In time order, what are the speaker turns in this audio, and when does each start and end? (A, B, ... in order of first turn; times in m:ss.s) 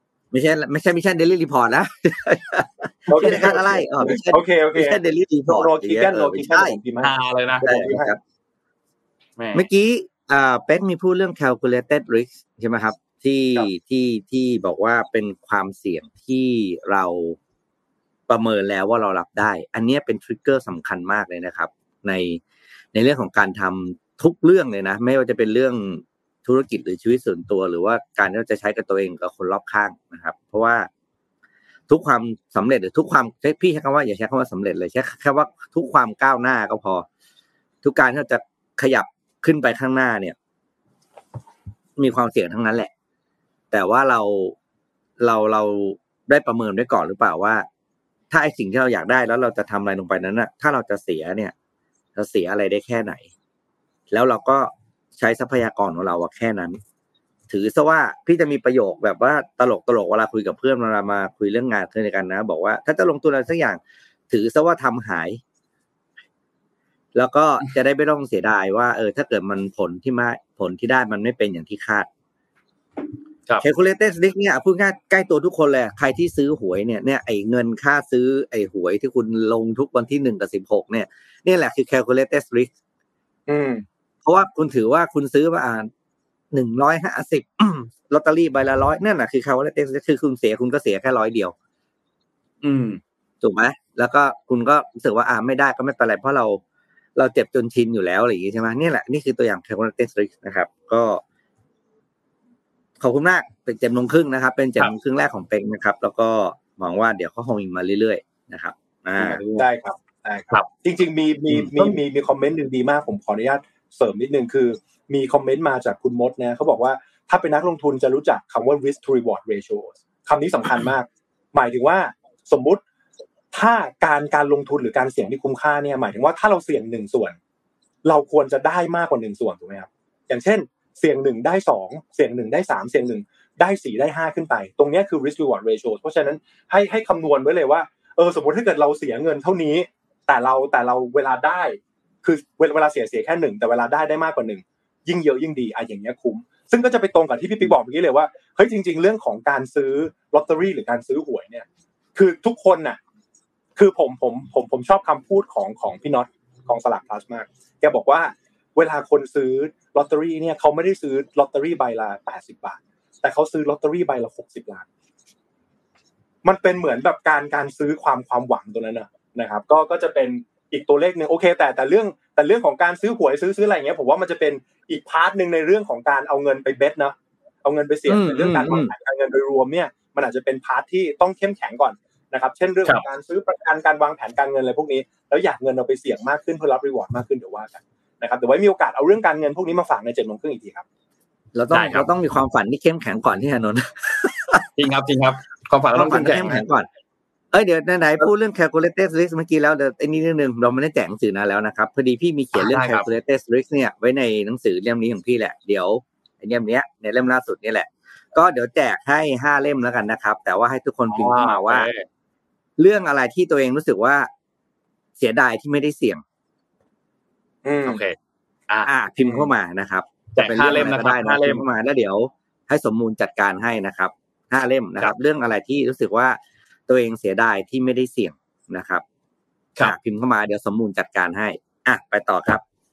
0:00.3-0:06.8 A
0:03.1-0:08.1 B
0:07.0-0:07.9 C
0:07.6-0:08.2 A
0:09.4-0:09.6 C
0:09.5-0:17.4 A
0:18.3-0:22.4 A
0:22.9-0:30.9 A
0:31.9-0:37.1 A
0:37.8-0:40.4 A
0:42.0-0:42.9 A
0:43.7-0:44.6 A
0:45.2-0:47.7 A
0:48.3-0:51.5 A
0:52.2-0:53.3 A
0:54.1-0:56.8 A
0:57.5-1:05.4 A
1:07.2-1:12.1 A
1:13.6-1:22.7 A
1:23.5-1:23.8 B
1:24.2-1:25.9 A
1:26.5-1:31.5 A
1:32.6-1:33.0 C
1:33.4-1:36.6 A
1:37.2-1:41.2 A
1:43.0-1:49.4 A
1:49.2-1:49.7 C
1:49.3-2:02.8 B
2:03.5-2:07.4 B
2:08.0-2:33.0 B
2:33.8-2:44.9 B
2:46.4-3:10.8 B
2:58.1-2:58.9 A
3:11.5-3:14.7 A
3:11.7-3:12.1 C
3:14.8-3:16.6 C
3:15.9-3:16.9 A
3:17.5-3:31.9 A
3:22.6-3:23.1 C
3:31.1-3:32.0 C
3:32.8-3:34.3 A
3:35.2-3:36.2 A
3:37.6-3:38.0 B
3:37.8-3:38.2 C
3:38.7-3:39.5 C
3:38.9-3:49.0 A
3:40.4-3:41.6 C
3:49.8-3:52.6 A